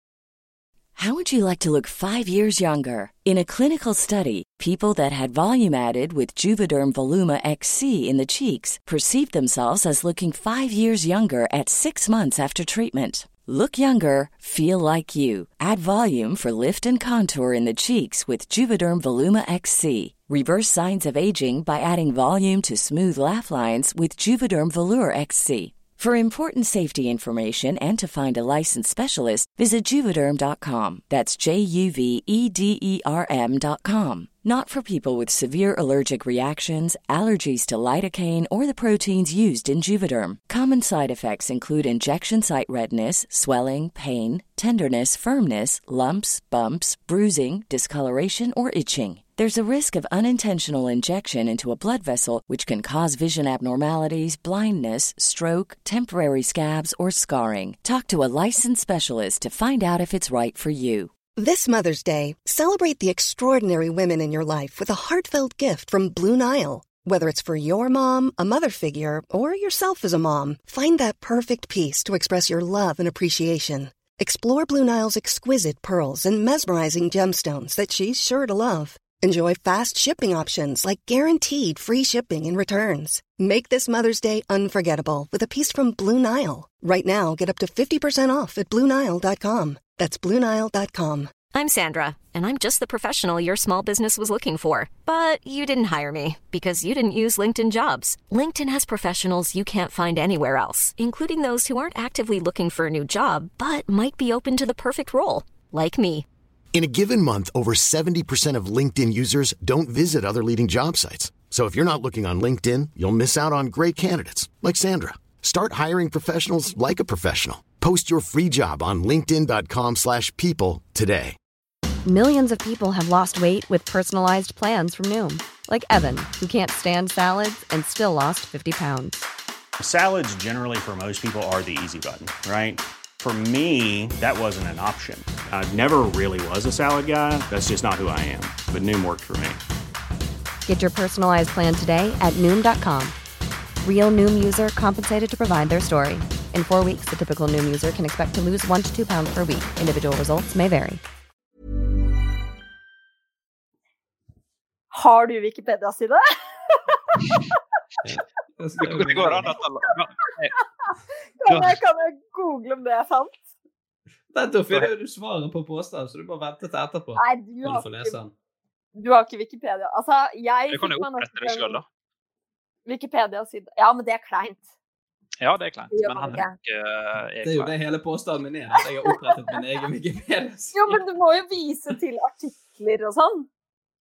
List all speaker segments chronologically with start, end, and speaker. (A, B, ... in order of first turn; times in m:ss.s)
0:01.0-1:01.1 A
1:01.4-1:31.4 B
1:31.5-1:46.3 C
1:46.7-2:01.4 D
2:02.0-2:09.2 E
2:09.8-2:19.6 F
2:20.6-2:23.1 E
2:23.8-2:31.0 E
2:34.9-2:37.2 G
2:38.0-2:39.6 H
2:38.8-2:40.6 I
2:41.4-2:43.4 G
2:41.5-2:41.8 I
2:44.3-2:48.3 H
2:47.2-2:48.2 G
2:49.0-2:51.8 G
2:50.7-2:51.8 I
2:52.9-2:54.6 G
2:55.4-2:57.7 I
2:55.9-2:56.5 G
2:57.4-3:01.0 H
3:00.7-3:03.5 G